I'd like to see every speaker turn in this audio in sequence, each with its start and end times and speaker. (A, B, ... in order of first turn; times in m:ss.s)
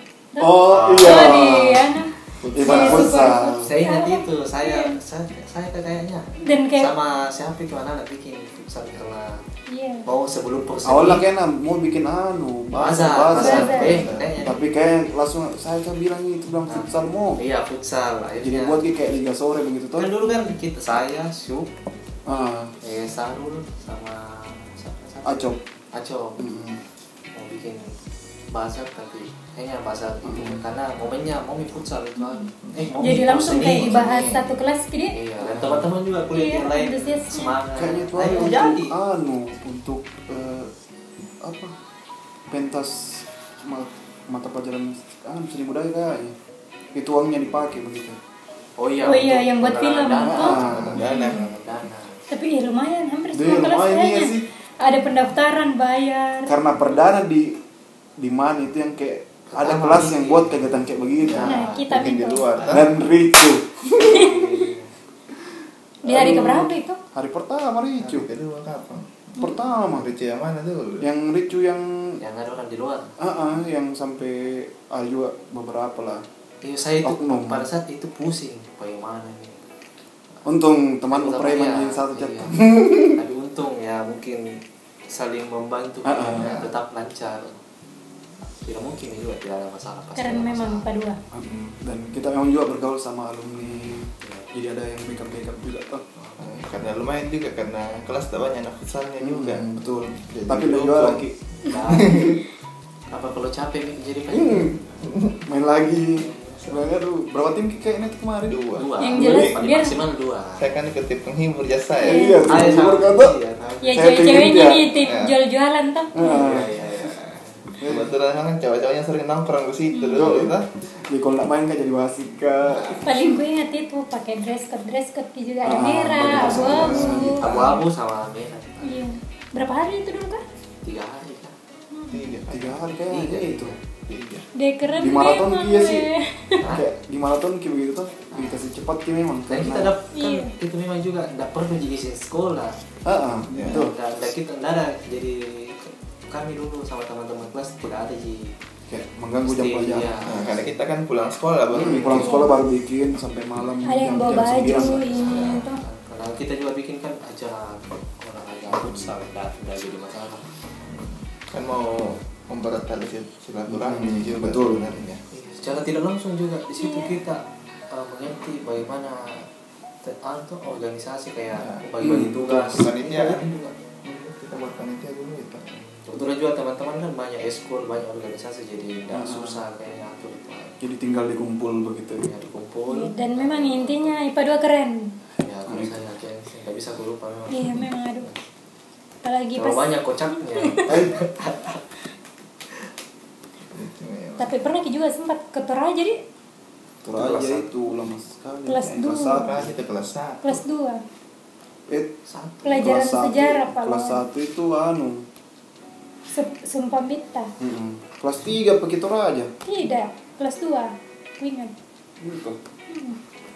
0:00.3-0:05.0 A
0:00.4-0:01.9 B
0:00.7-0:01.4 C
0:02.4-0:03.1 D
0:02.5-0:03.7 B
0:03.6-0:09.4 C
0:06.4-0:06.9 A
0:09.7-0:10.1 A
0:10.0-0:11.2 C
0:10.8-0:17.4 B
0:12.8-0:14.7 C
0:13.3-0:14.0 A
0:13.4-0:13.9 D
0:16.7-0:18.8 C
0:18.4-0:20.1 B
0:20.0-0:21.7 C
0:22.2-0:22.7 B
0:22.8-0:26.4 C
0:25.2-0:25.6 B
0:26.4-0:26.8 B
0:27.3-0:27.8 C
0:28.5-0:34.1 C
0:30.2-0:30.6 B
0:32.2-0:35.2 A
0:33.6-0:34.5 D
0:35.1-0:38.9 C
0:35.4-0:35.9 B
0:36.3-0:37.6 A
0:37.7-0:40.7 B
0:41.4-0:41.7 B
0:42.5-0:46.3 B
0:46.9-0:48.2 B
0:48.8-0:52.2 C
0:49.0-0:51.5 A
0:50.2-0:51.0 B
0:50.4-0:51.5 D
0:52.3-0:56.5 A
0:53.3-0:54.4 B
0:56.4-0:57.6 B
0:58.2-1:01.7 B
0:59.5-1:00.8 C
1:01.3-1:02.9 D
1:01.4-1:02.0 C
1:01.4-1:02.4 A
1:02.6-1:03.2 C
1:02.7-1:04.3 B
1:03.9-1:04.4 A
1:04.0-1:04.9 C
1:06.0-1:07.0 A
1:06.0-1:08.3 B
1:08.0-1:11.0 D
1:09.4-1:10.1 B
1:11.0-1:12.2 B
1:12.2-1:13.1 C
1:13.2-1:16.2 B
1:16.6-1:19.6 C
1:17.0-1:17.7 B
1:20.4-1:23.2 B
1:21.1-1:24.6 C
1:25.1-1:27.6 C
1:26.0-1:26.5 B
1:26.3-1:26.7 D
1:28.6-1:30.8 C
1:30.2-1:31.2 A
1:31.3-1:36.0 B
1:34.2-1:34.5 C
1:36.2-1:36.7 C
1:36.4-1:41.3 D
1:39.2-1:41.3 B
1:41.7-1:42.3 C
1:41.8-1:42.4 D
1:41.9-1:42.3 B
1:41.9-1:42.3 A
1:43.1-1:44.8 C
1:44.3-1:49.7 B
1:46.2-1:46.7 C
1:48.4-1:48.9 D
1:48.8-1:50.8 C
1:49.0-1:50.0 A
1:50.6-1:52.3 D
1:52.0-1:52.6 A
1:52.0-1:53.4 B
1:52.4-1:54.2 C
1:53.8-1:56.5 A
1:53.9-1:54.9 B
1:55.0-1:55.4 D
1:56.1-1:57.1 B
1:56.2-1:57.6 C
1:57.8-1:58.1 B
1:57.8-2:00.7 D
1:59.9-2:00.5 A
2:00.2-2:03.1 B
2:02.9-2:07.5 A
2:05.6-2:07.6 B
2:06.2-2:09.1 C
2:06.4-2:07.8 D
2:08.8-2:10.4 A
2:10.8-2:11.5 C
2:11.9-2:12.2 A
2:12.1-2:12.8 D
2:12.5-2:13.7 B
2:13.1-2:13.8 C
2:14.0-2:14.4 D
2:14.5-2:16.7 A
2:14.9-2:16.1 B
2:16.6-2:16.8 C
2:16.6-2:19.9 B
2:18.3-2:18.6 C
2:19.5-2:22.8 C
2:20.1-2:20.5 A
2:23.0-2:23.9 B
2:23.5-2:23.8 D
2:23.6-2:28.5 C
2:28.9-2:30.3 B
2:29.4-2:30.8 C
2:30.2-2:32.4 D
2:31.7-2:35.1 B
2:31.8-2:32.3 C
2:32.1-2:32.6 A
2:33.8-2:35.8 A
2:35.0-2:35.6 D
2:35.1-2:40.4 C
2:38.7-2:39.1 B
2:40.8-2:45.2 D
2:43.7-2:44.8 B
2:45.3-2:49.5 C
2:46.7-2:47.2 A
2:50.0-2:53.8 C
2:51.5-2:51.9 D
2:52.0-2:52.8 B
2:52.6-2:53.4 D
2:54.0-2:55.7 D
2:55.7-3:00.7 C
2:59.1-2:59.6 B
3:00.8-3:02.3 B
3:02.2-3:04.2 C
3:02.9-3:05.1 A
3:05.4-3:08.4 C
3:05.7-3:05.9 B
3:07.5-3:08.3 A
3:09.2-3:10.9 A
3:09.5-3:11.8 C
3:10.8-3:11.2 B
3:13.7-3:14.8 D
3:14.4-3:16.2 A
3:17.0-3:19.7 B
3:17.1-3:17.7 C
3:18.6-3:19.6 A
3:19.4-3:20.6 D
3:20.4-3:21.0 A
3:21.9-3:22.1 B
3:22.3-3:22.8 C
3:22.6-3:24.2 A
3:22.7-3:25.2 B
3:26.3-3:27.5 A
3:27.6-3:29.5 B
3:29.6-3:31.7 A
3:32.2-3:32.6 B
3:32.9-3:33.2 A